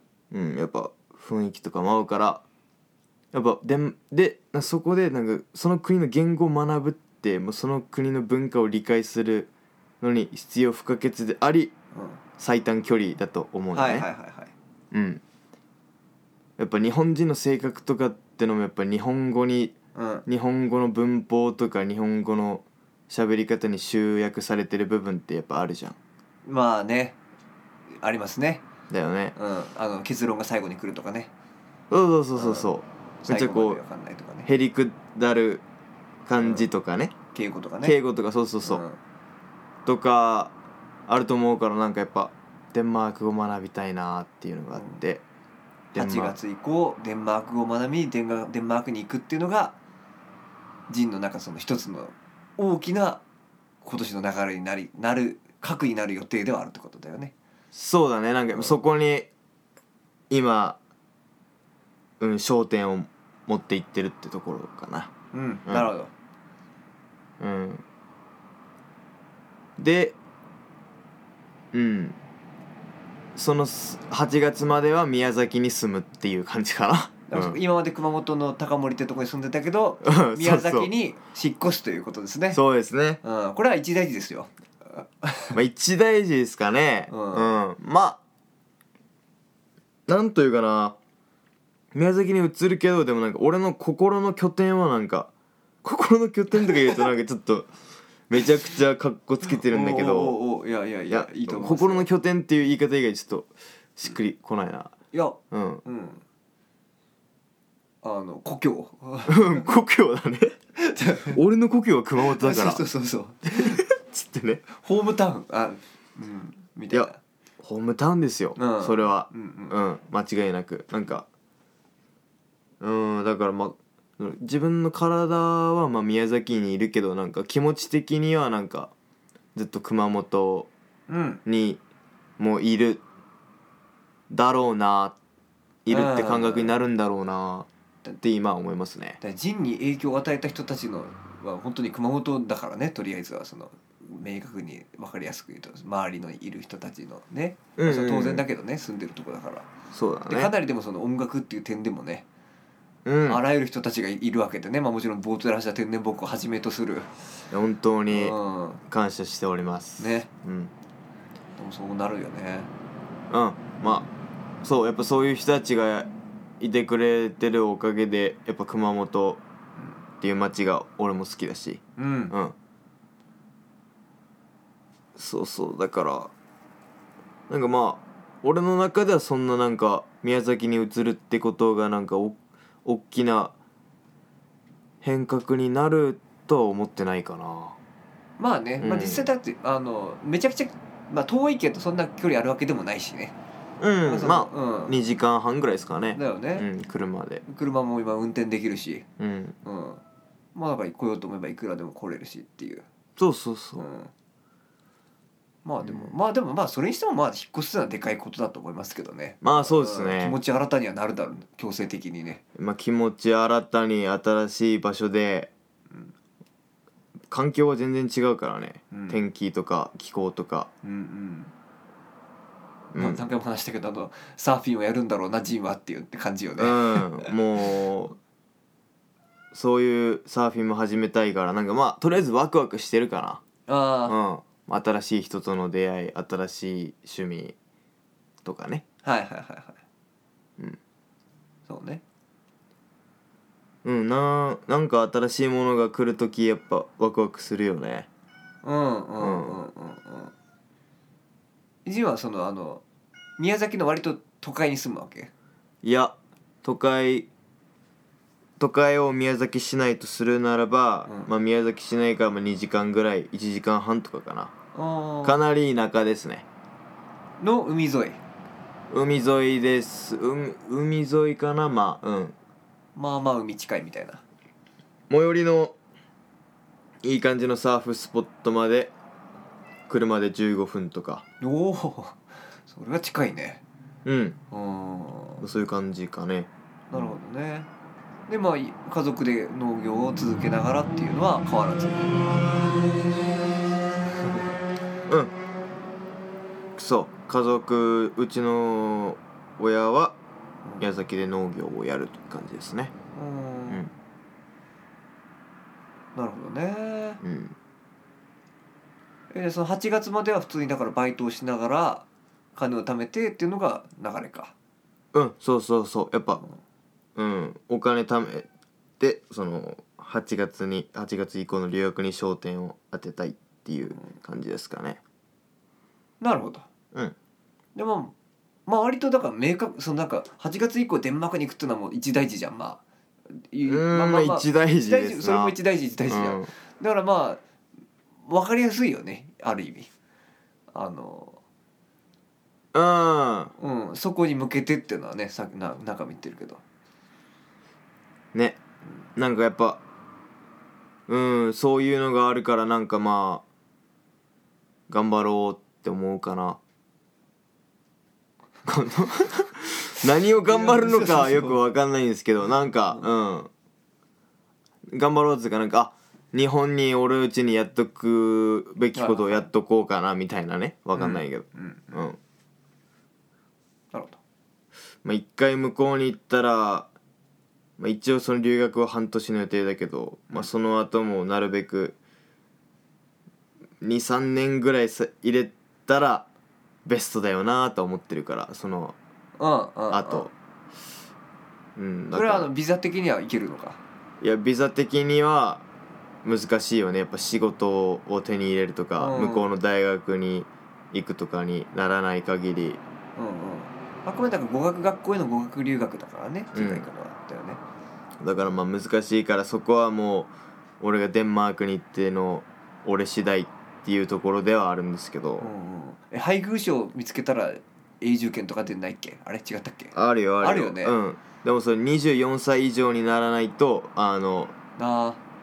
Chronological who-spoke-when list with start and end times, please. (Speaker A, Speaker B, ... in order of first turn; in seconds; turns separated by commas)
Speaker A: 0.3-2.4, Speaker A: 3.3-9.5, Speaker A: 10.0-11.7, Speaker B: 11.9-12.2, Speaker A: 12.4-14.1, Speaker B: 13.7-14.5, Speaker A: 14.9-15.2, Speaker A: 16.6-19.8, Speaker B: 19.9-20.2, Speaker A: 20.3-26.0, Speaker B: 26.5-27.2, Speaker B: 28.0-28.6, Speaker A: 28.9-29.4, Speaker B: 29.4-31.3, Speaker A: 31.9-33.8, Speaker B: 32.4-32.7, Speaker B: 33.2-34.5, Speaker A: 34.5-35.6, Speaker A: 36.3-37.1, Speaker B: 36.4-36.7, Speaker B: 37.3-38.0, Speaker A: 37.8-38.8, Speaker B: 38.6-39.0, Speaker A: 39.9-40.5, Speaker A: 41.1-45.2, Speaker B: 44.7-45.0, Speaker A: 45.9-46.4, Speaker B: 45.9-49.8, Speaker B: 50.9-53.2, Speaker B: 53.8-57.3, Speaker A: 57.7-59.3, Speaker A: 60.3-60.8, Speaker A: 62.2-65.1, Speaker B: 65.3-66.1, Speaker A: 67.4-67.8, Speaker A: 69.8-70.2, Speaker A: 71.7-72.2, Speaker A: 73.3-77.6, Speaker B: 77.3-82.6, Speaker A: 80.0-80.9, Speaker A: 82.5-83.2, Speaker B: 83.2-85.6, Speaker A: 85.5-88.2, Speaker B: 87.1-87.5, Speaker A: 90.1-91.0, Speaker A: 91.9-95.3, Speaker A: 95.8-97.7, Speaker A: 98.3-100.4, Speaker B: 99.5-102.1, Speaker A: 101.1-105.0, Speaker B: 105.1-106.2, Speaker A: 105.5-105.8, Speaker B: 108.0-109.7, Speaker A: 109.3-110.6, Speaker B: 110.8-111.4, Speaker A: 111.3-112.8, Speaker B: 112.2-113.8, Speaker A: 113.5-114.6, Speaker B: 114.7-117.2, Speaker A: 117.6-121.3, Speaker B: 118.6-119.8, Speaker A: 122.8-128.9, Speaker A: 129.6-130.7, Speaker B: 131.1-131.4, Speaker A: 131.5-131.8, Speaker A: 132.4-133.0, Speaker A: 134.3-135.2, Speaker A: 135.8-137.7, Speaker B: 135.9-136.8, Speaker A: 138.2-139.2, Speaker B: 139.2-149.7, Speaker A: 147.8-148.4, Speaker A: 149.9-150.5, Speaker B: 150.3-152.3, Speaker A: 153.1-153.4, Speaker B: 153.3-157.1, Speaker A: 157.5-158.4, Speaker B: 158.1-158.8, Speaker A: 158.9-160.7, Speaker B: 160.0-160.3, Speaker B: 161.6-162.7, Speaker A: 163.3-164.1, Speaker A: 164.6-169.4, Speaker A: 170.2-172.6, Speaker B: 172.0-172.3, Speaker A: 175.2-176.3, Speaker A: 177.5-183.5, Speaker A: 185.0-187.8, Speaker B: 188.4-193.3, Speaker A: 188.8-189.3, Speaker A: 193.8-197.4, Speaker B: 194.1-194.9, Speaker B: 196.2-196.7, Speaker B: 197.5-199.1, Speaker A: 199.2-199.6, Speaker B: 199.6-200.0, Speaker B: 200.5-202.8, Speaker A: 203.2-203.9, Speaker B: 203.8-204.1, Speaker B: 205.7-212.4, Speaker A: 205.8-206.1, Speaker A: 209.4-210.4, Speaker A: 212.6-215.5, Speaker A: 217.3-220.7, Speaker B: 218.9-219.2, Speaker B: 220.8-221.5, Speaker A: 222.9-223.2, Speaker B: 223.0-227.3, Speaker A: 226.6-228.2, Speaker A: 229.5-233.4, Speaker B: 233.7-234.2, Speaker A: 234.1-237.6, Speaker A: 238.4-238.8, Speaker B: 239.0-239.8, Speaker B: 241.7-242.0, Speaker A: 243.8-248.1, Speaker B: 248.6-250.3, Speaker A: 249.2-249.6, Speaker B: 251.8-252.8, Speaker B: 253.4-255.3, Speaker A: 255.8-257.3, Speaker A: 258.6-264.5, Speaker B: 264.8-265.4, Speaker A: 265.2-266.4, Speaker B: 267.4-268.2, Speaker A: 268.9-272.4, Speaker B: 273.0-274.2, Speaker A: 275.1-275.8, Speaker A: 277.0-278.9, Speaker A: 279.9-281.2, Speaker B: 281.4-283.6, Speaker A: 284.1-284.4, Speaker B: 284.5-285.4, Speaker A: 285.4-286.5, Speaker B: 286.9-287.7, Speaker B: 288.3-292.6, Speaker B: 294.2-294.5, Speaker A: 295.1-295.3, Speaker A: 296.8-300.1, Speaker A: 300.8-302.9, Speaker B: 303.1-303.9, Speaker B: 306.1-307.2, Speaker A: 307.2-307.6, Speaker B: 309.3-312.1, Speaker B: 312.6-314.5, Speaker A: 315.1-316.4, Speaker A: 317.2-318.5, Speaker A: 319.0-325.0, Speaker B: 326.2-326.7, Speaker B: 327.8-328.1, Speaker B: 328.7-332.8, Speaker B: 333.5-337.4, Speaker A: 333.7-335.6, Speaker A: 336.1-336.5, Speaker B: 338.3-339.9, Speaker B: 340.7-341.4, Speaker A: 342.7-343.5, Speaker B: 343.6-346.6, Speaker A: 348.3-348.6, Speaker A: 349.2-349.8, Speaker A: 351.1-353.4, Speaker A: 354.9-356.6, Speaker A: 358.7-363.5, Speaker B: 360.4-361.6, Speaker A: 364.9-372.2, Speaker B: 368.9-369.5, Speaker B: 370.9-372.0, Speaker B: 373.9-374.2, Speaker A: 375.0-376.9, Speaker A: 377.8-382.0, Speaker A: 383.8-386.3, Speaker A: 386.9-389.0, Speaker B: 389.4-390.3, Speaker A: 389.9-390.3, Speaker A: 391.8-392.5, Speaker B: 392.1-393.8, Speaker A: 394.2-395.6, Speaker A: 396.2-402.8, Speaker B: 399.0-399.5, Speaker B: 403.2-407.6, Speaker A: 406.5-406.9, Speaker A: 408.2-415.5, Speaker B: 415.4-420.9, Speaker A: 419.9-424.5, Speaker B: 424.8-425.2